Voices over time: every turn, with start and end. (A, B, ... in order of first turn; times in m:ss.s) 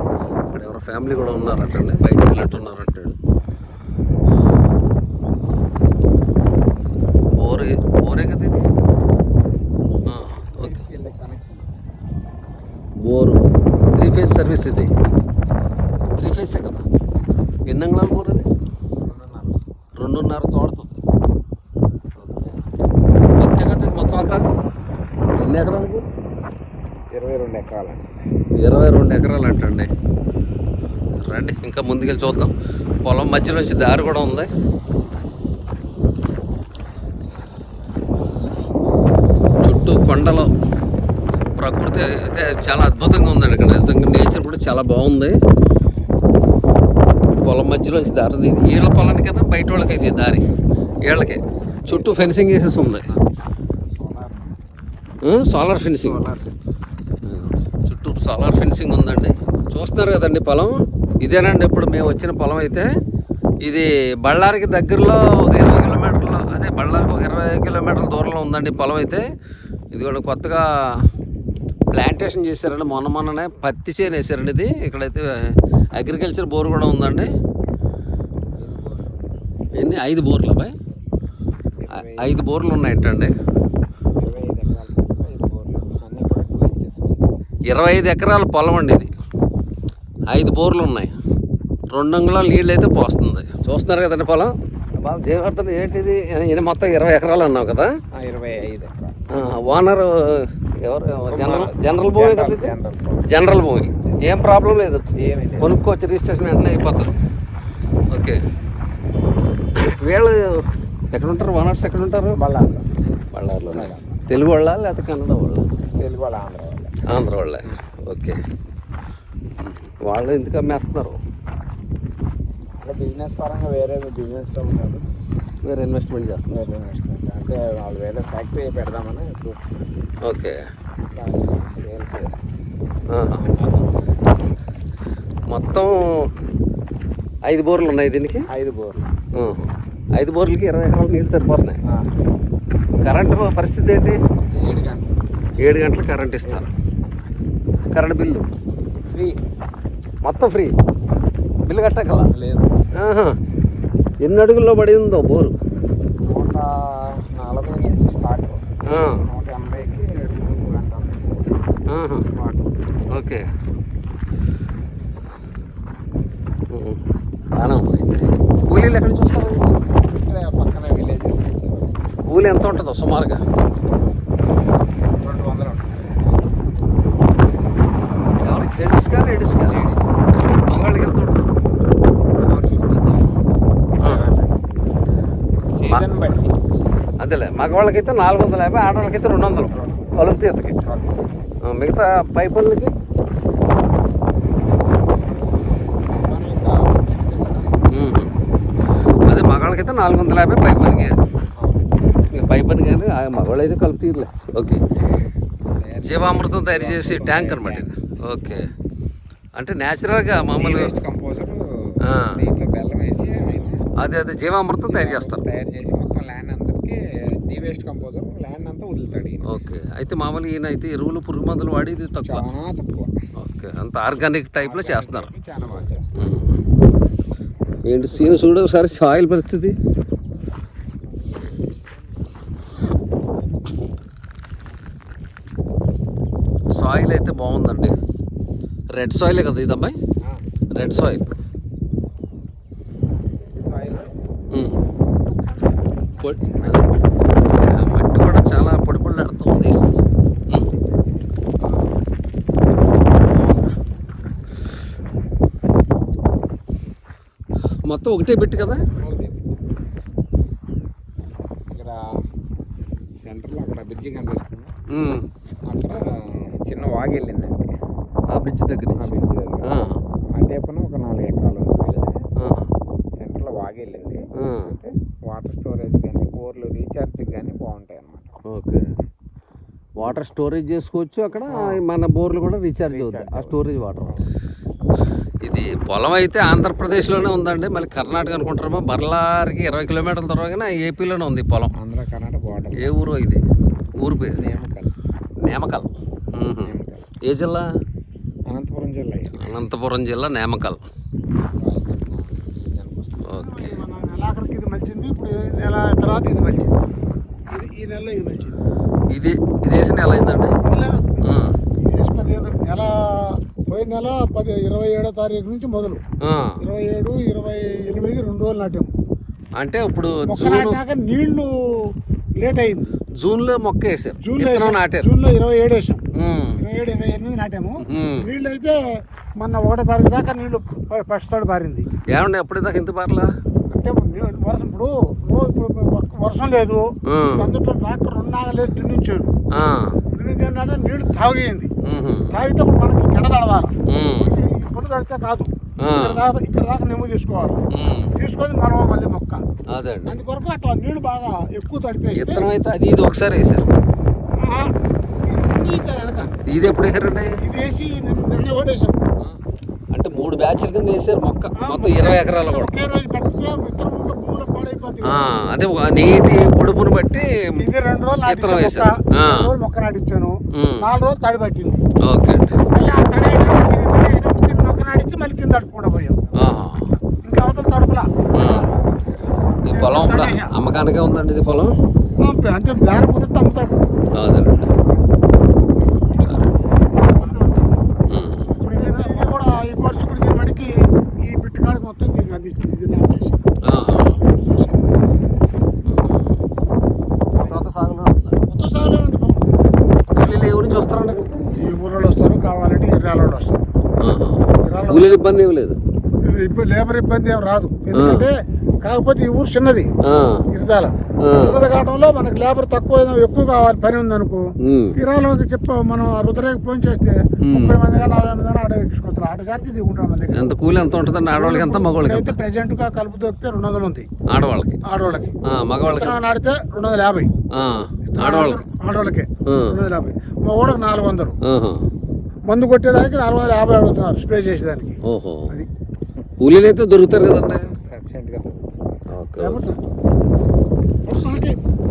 0:00.5-0:03.2 A
0:07.3-0:08.7 A
0:10.1-0:10.8 A
0:10.5-0:11.7 B
0:13.0-0:14.9 A
0:16.1-0:16.9 A
0:17.7-0:18.5 A
0:19.0-0:19.7 B
0:20.0-0:20.9 A
0:22.2-0:22.6 A
0:23.4-0:24.4 A
0:25.4-0:26.0 A
0:27.1-0:28.2 B
0:28.6-0:29.9 A
0:31.2-0:34.5 A
0:39.6-0:40.5 A
0:41.6-0:45.4 A
0:47.4-0:50.4 A
0:51.0-0:53.1 A
0:51.9-0:53.3 B
0:53.9-0:54.6 B
0:55.2-0:56.2 A
0:55.9-0:56.6 B
0:57.2-1:02.9 A
1:03.6-1:09.2 A
1:09.9-1:11.0 A
1:11.9-1:15.3 A
1:15.9-1:17.3 A
1:18.6-1:19.1 B
1:19.8-1:20.7 A
1:21.8-1:22.4 B
1:21.9-1:23.3 A
1:24.2-1:27.2 B
1:27.7-1:29.1 A
1:30.3-1:31.1 A
1:31.9-1:37.9 A
1:38.1-1:39.2 B
1:39.3-1:42.7 A
1:41.3-1:43.3 B
1:43.2-1:45.1 A
1:45.1-1:45.7 B
1:45.6-1:47.1 A
1:48.1-1:48.4 A
1:49.8-1:52.4 A
1:52.3-1:52.9 B
1:53.3-1:55.7 A
1:53.7-1:54.2 B
1:55.9-1:57.0 B
1:57.1-1:58.4 A
1:59.6-2:01.2 A
2:02.8-2:05.1 B
2:05.7-2:06.6 A
2:06.5-2:09.8 B
2:10.2-2:10.6 A
2:11.1-2:12.6 B
2:13.1-2:13.4 A
2:13.3-2:14.0 B
2:15.5-2:16.1 A
2:17.4-2:18.4 A
2:18.5-2:19.1 B
2:19.4-2:21.8 A
2:23.0-2:24.2 A
2:24.5-2:25.1 B
2:25.6-2:26.7 A
2:27.9-2:28.5 A
2:29.0-2:29.4 B
2:30.2-2:30.7 A
2:31.6-2:32.3 A
2:32.3-2:32.9 B
2:32.9-2:33.4 A
2:34.2-2:35.5 A
2:36.2-2:41.7 B
2:38.9-2:39.2 A
2:41.9-2:42.2 A
2:42.3-2:42.8 B
2:43.1-2:43.4 A
2:46.7-2:47.0 A
2:47.6-2:49.7 A
2:50.0-2:52.0 B
2:52.2-2:53.4 A
2:55.2-2:56.3 B
2:58.4-2:59.9 A
2:59.5-3:00.2 B
3:00.7-3:01.5 A
3:02.4-3:03.4 B
3:04.0-3:04.6 B
3:05.7-3:06.6 B
3:05.9-3:06.2 A
3:07.2-3:10.8 A
3:09.7-3:10.1 B
3:10.8-3:11.3 B
3:11.6-3:12.9 A
3:14.9-3:17.9 B
3:17.9-3:18.3 A
3:19.3-3:21.2 A
3:21.6-3:21.9 B
3:22.3-3:24.8 A
3:25.8-3:28.7 B
3:26.0-3:28.7 A
3:29.6-3:30.9 A
3:30.6-3:33.8 B
3:32.0-3:32.4 A
3:34.0-3:35.4 A
3:34.9-3:39.6 B
3:39.4-3:42.4 A
3:42.2-3:43.1 B
3:43.4-3:45.3 A
3:44.6-3:46.4 B
3:46.2-3:46.6 A
3:47.8-3:49.8 A
3:48.1-3:48.4 B
3:56.7-3:57.9 A
3:58.9-3:59.9 A
4:00.7-4:01.3 A
4:03.4-4:04.1 B
4:04.5-4:04.8 A
4:06.2-4:06.9 B
4:06.2-4:06.9 A
4:07.6-4:09.9 A
4:13.3-4:13.7 B
4:17.9-4:18.8 A
4:18.8-4:19.6 B
4:21.7-4:22.1 B
4:23.2-4:24.7 B
4:24.9-4:25.2 A
4:25.6-4:27.8 B
4:28.3-4:30.0 A
4:29.0-4:29.8 B
4:30.4-4:32.2 B
4:32.4-4:32.7 A
4:33.2-4:38.4 B
4:34.4-4:34.7 A
4:38.4-4:38.9 A
4:40.0-4:44.2 A
4:41.5-4:41.8 B
4:42.9-4:44.2 B
4:45.4-4:51.7 A
4:51.7-4:52.9 B
4:52.8-4:53.4 A
4:54.0-4:54.4 A
4:54.3-4:54.9 B
4:55.4-4:57.7 A
4:56.6-4:57.1 B
4:58.5-4:59.5 B
4:59.4-5:00.8 A
5:01.6-5:03.4 B
5:03.2-5:03.8 A
5:03.3-5:06.9 C
5:07.5-5:08.6 C
5:09.1-5:10.5 A
5:10.6-5:11.2 C
5:11.2-5:11.5 A
5:11.9-5:16.0 C
5:16.2-5:16.6 A
5:16.6-5:18.9 C
5:19.6-5:20.8 A
5:20.2-5:21.5 C
5:22.4-5:22.9 C
5:23.2-5:25.1 A
5:24.2-5:26.0 C
5:26.1-5:26.6 A
5:26.6-5:28.8 C
5:27.8-5:28.3 A
5:29.4-5:31.9 C
5:32.1-5:33.3 A
5:33.7-5:39.3 C
5:37.1-5:37.5 A
5:39.5-5:40.0 A
5:40.1-5:41.7 C
5:41.8-5:42.3 A
5:42.3-5:47.6 C
5:43.9-5:44.4 A
5:45.8-5:46.2 A
5:47.7-5:48.1 A
5:48.2-5:49.4 C
5:49.7-5:50.2 A
5:50.0-5:52.5 C
5:52.1-5:53.7 A
5:54.4-5:54.7 C
5:55.3-5:56.3 C
5:56.5-5:57.3 A
5:57.4-5:59.0 C
5:59.9-6:02.7 A
6:01.6-6:05.3 C
6:05.0-6:07.3 A
6:07.6-6:11.8 C
6:08.3-6:09.5 A
6:10.5-6:10.9 A
6:12.0-6:12.6 A
6:12.7-6:16.2 C
6:16.4-6:16.9 A
6:17.2-6:18.7 C
6:18.3-6:18.7 A
6:19.6-6:21.7 A
6:19.7-6:20.5 C
6:22.2-6:23.9 C
6:24.1-6:24.7 A
6:25.8-6:26.6 A
6:27.1-6:27.8 C
6:28.1-6:28.5 A
6:28.6-6:33.4 C
6:33.6-6:34.2 A
6:34.3-6:34.8 C
6:35.9-6:36.4 A
6:37.3-6:38.4 A
6:38.5-6:39.4 C
6:40.1-6:41.3 A
6:41.5-6:43.6 C
6:44.0-6:45.8 A
6:44.6-6:45.2 C
6:46.3-6:49.9 C
6:47.9-6:48.3 A
6:50.0-6:50.4 A
6:50.5-7:00.6 C
6:51.2-6:51.6 A
6:54.6-6:55.0 A
6:57.4-6:57.8 A
7:00.3-7:02.4 A
7:01.4-7:04.1 C
7:04.3-7:04.8 A
7:04.9-7:07.3 C
7:05.4-7:06.2 A
7:07.5-7:08.6 A
7:08.1-7:11.4 C
7:09.5-7:09.8 A
7:11.4-7:11.8 A
7:12.5-7:15.0 C
7:15.0-7:15.5 A
7:16.4-7:17.6 A
7:17.8-7:18.7 B
7:19.1-7:19.6 A
7:19.4-7:19.9 C
7:21.0-7:21.6 C